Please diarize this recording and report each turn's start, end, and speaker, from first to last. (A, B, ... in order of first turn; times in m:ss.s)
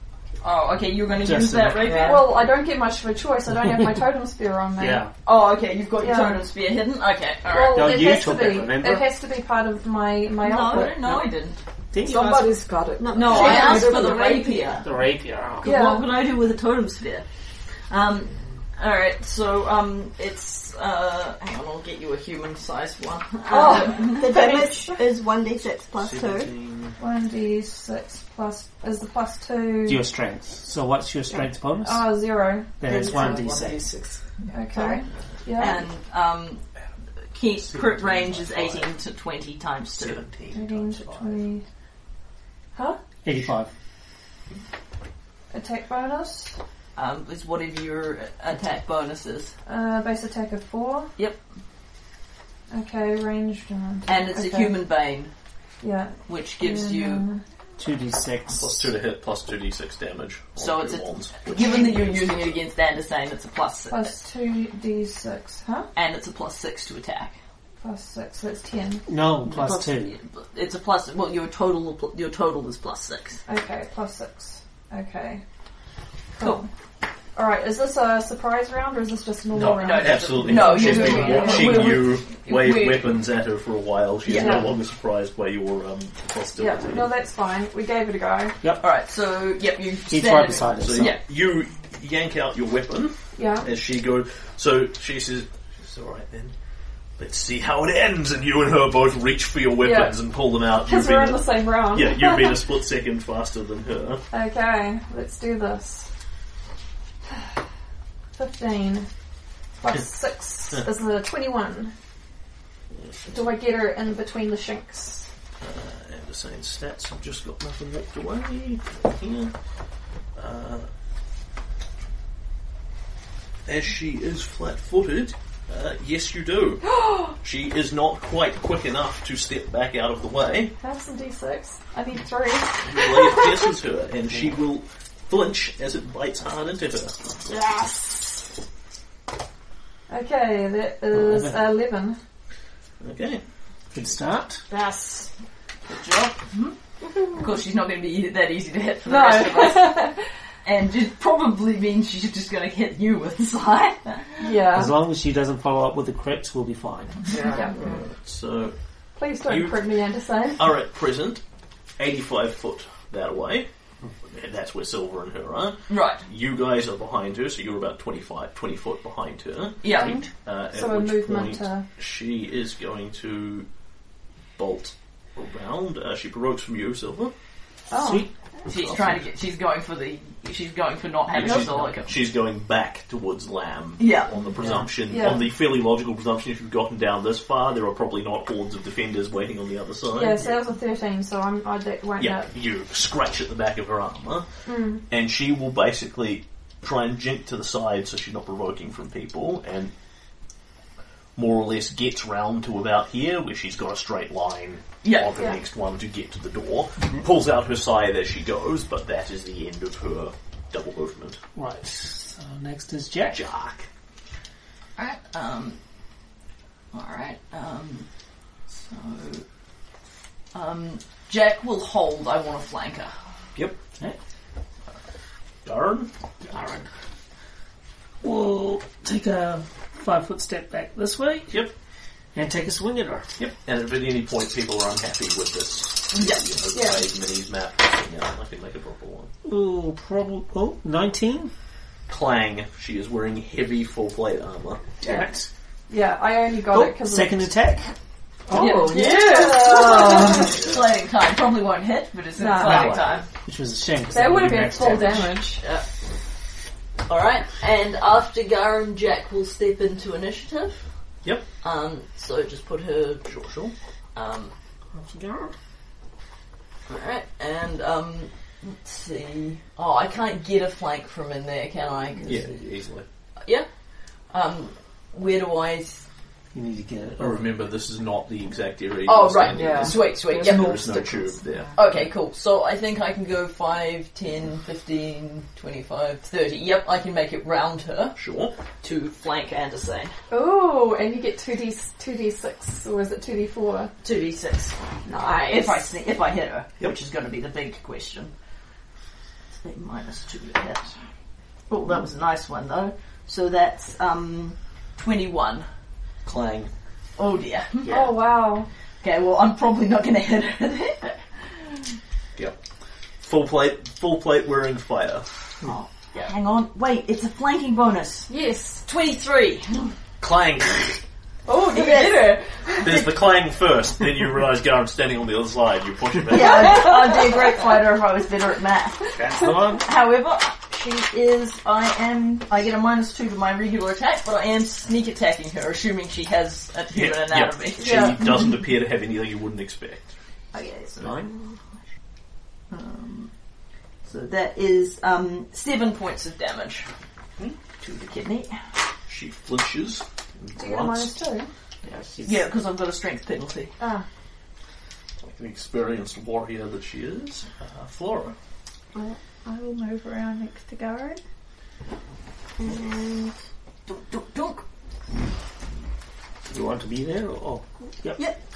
0:00.4-0:02.2 A
0:01.2-0:02.1 B
0:01.8-0:02.3 C
0:01.9-0:05.1 D
0:04.8-0:05.1 B
0:05.2-0:08.2 A
0:06.0-0:06.4 D
0:07.5-0:11.2 D
0:07.7-0:09.1 B
0:10.4-0:11.6 A
0:11.9-0:12.6 B
0:12.0-0:14.4 C
0:13.0-0:14.5 E
0:13.1-0:14.9 A
0:13.3-0:14.2 D
0:14.8-0:15.7 B
0:15.6-0:17.2 A
0:15.6-0:16.1 D
0:17.9-0:24.4 A
0:23.5-0:25.0 D
0:23.9-0:26.5 E
0:25.9-0:27.0 F
0:27.0-0:30.0 D
0:29.8-0:32.1 B
0:31.3-0:33.2 D
0:32.8-0:33.8 B
0:32.8-0:34.6 C
0:32.9-0:33.2 E
0:34.5-0:35.8 D
0:35.1-0:35.8 F
0:35.6-0:36.6 A
0:37.3-0:40.2 A
0:37.6-0:39.0 F
0:39.9-0:41.5 F
0:40.5-0:41.6 D
0:42.7-0:43.0 D
0:43.2-0:43.7 B
0:45.5-0:46.6 D
0:46.9-0:49.5 A
0:49.6-0:51.1 D
0:52.7-0:54.8 D
0:54.0-0:55.3 A
0:55.8-0:57.4 D
0:56.2-0:57.2 A
0:57.8-0:58.9 B
0:58.5-1:02.6 F
1:00.6-1:04.2 A
1:01.5-1:02.0 D
1:03.9-1:05.9 D
1:05.9-1:07.3 A
1:07.8-1:09.0 D
1:09.1-1:10.2 B
1:09.4-1:13.4 A
1:13.4-1:15.4 D
1:16.4-1:16.7 D
1:16.4-1:16.6 A
1:17.3-1:22.1 D
1:19.5-1:27.1 F
1:19.6-1:23.1 A
1:24.2-1:24.7 A
1:24.3-1:24.7 D
1:26.5-1:28.6 D
1:28.8-1:31.2 A
1:30.1-1:31.2 B
1:30.8-1:36.5 F
1:33.4-1:33.7 D
1:37.2-1:44.2 F
1:39.8-1:42.6 D
1:44.3-1:46.1 D
1:48.3-1:49.1 D
1:49.8-1:51.9 D
1:53.0-1:53.5 F
1:53.3-1:55.3 D
1:55.6-1:59.5 F
2:00.3-2:00.9 F
2:03.6-2:10.7 F
2:06.9-2:07.3 D
2:10.8-2:13.7 D
2:12.8-2:17.2 F
2:17.4-2:18.4 D
2:20.1-2:22.2 D
2:21.1-2:21.8 B
2:23.0-2:23.4 F
2:23.9-2:24.6 B
2:24.7-2:25.3 D
2:25.9-2:26.7 A
2:27.0-2:27.5 D
2:27.3-2:30.0 A
2:29.0-2:30.2 D
2:30.6-2:34.6 A
2:34.4-2:35.0 D
2:34.7-2:37.4 B
2:37.3-2:38.0 C
2:37.4-2:37.8 D
2:37.8-2:38.7 F
2:39.2-2:40.7 D
2:39.4-2:40.0 F
2:40.6-2:41.4 F
2:42.0-2:43.7 F
2:44.2-2:53.7 F
2:45.9-2:46.2 A
2:49.8-2:50.2 A
2:49.9-2:51.8 D
2:54.6-2:57.3 F
2:57.9-2:58.3 D
2:57.9-2:59.2 B
2:58.7-3:02.2 A
3:01.3-3:10.6 F
3:01.4-3:01.9 B
3:04.0-3:04.3 A
3:04.6-3:04.9 B
3:05.0-3:05.5 D
3:10.1-3:12.5 D
3:12.2-3:14.5 F
3:14.6-3:15.0 D
3:15.1-3:19.9 F
3:21.4-3:31.4 F
3:25.0-3:25.3 A
3:25.3-3:25.6 D
3:31.5-3:33.4 B
3:33.3-3:33.9 F
3:35.0-3:35.8 A
3:36.9-3:38.1 A
3:38.7-3:39.4 A
3:40.5-3:43.1 A
3:45.6-3:46.1 F
3:46.4-3:46.9 B
3:48.2-3:51.6 B
3:52.3-3:53.3 B
3:53.4-3:59.3 F
3:56.1-3:56.4 A
3:56.7-3:57.0 D
3:59.4-4:01.5 B
4:02.1-4:05.3 F
4:05.0-4:05.5 B
4:05.9-4:07.5 D
4:06.7-4:07.9 B
4:08.5-4:09.0 B
4:08.5-4:10.5 C
4:08.6-4:10.6 D
4:08.7-4:13.2 A
4:12.4-4:13.0 D
4:12.6-4:13.2 F
4:12.6-4:15.4 B
4:14.1-4:15.6 D
4:15.6-4:15.9 A
4:17.1-4:20.9 A
4:21.6-4:23.3 A
4:23.2-4:23.7 F
4:24.1-4:24.5 A
4:24.9-4:25.5 B
4:26.9-4:32.5 A
4:32.2-4:33.0 F
4:33.4-4:33.7 A
4:34.3-4:36.0 A
4:36.5-4:37.5 B
4:37.2-4:41.8 F
4:39.0-4:40.8 A
4:39.5-4:41.8 C
4:41.7-4:48.2 A
4:48.2-4:48.5 F
4:48.8-4:50.1 A
4:50.3-4:53.9 D
4:54.0-4:58.3 A
4:55.0-4:55.9 D
4:59.6-5:01.0 A
5:01.7-5:05.7 A
5:06.2-5:06.7 F
5:07.2-5:08.0 A
5:07.9-5:08.2 B
5:07.9-5:08.7 D
5:09.0-5:11.9 A
5:13.2-5:15.3 F
5:15.6-5:18.3 A
5:18.3-5:18.9 D
5:18.8-5:19.9 A
5:20.2-5:21.0 F
5:21.4-5:23.1 D
5:21.7-5:22.4 A
5:22.8-5:27.1 F
5:26.3-5:29.1 A
5:26.6-5:27.3 D
5:29.1-5:29.8 B
5:29.2-5:29.7 D
5:29.8-5:37.9 A
5:36.9-5:40.1 F
5:37.8-5:38.4 D
5:40.5-5:41.5 A
5:41.0-5:41.2 F
5:42.7-5:43.3 A
5:44.0-5:46.9 A
5:47.8-5:48.6 A
5:49.1-5:51.2 F
5:50.6-5:51.5 D
5:51.8-5:52.4 B
5:52.2-5:53.7 A
5:53.8-5:54.0 D
5:55.2-5:58.3 F
5:58.9-6:01.2 E
6:02.6-6:03.3 E
6:03.9-6:04.6 A
6:06.5-6:08.2 B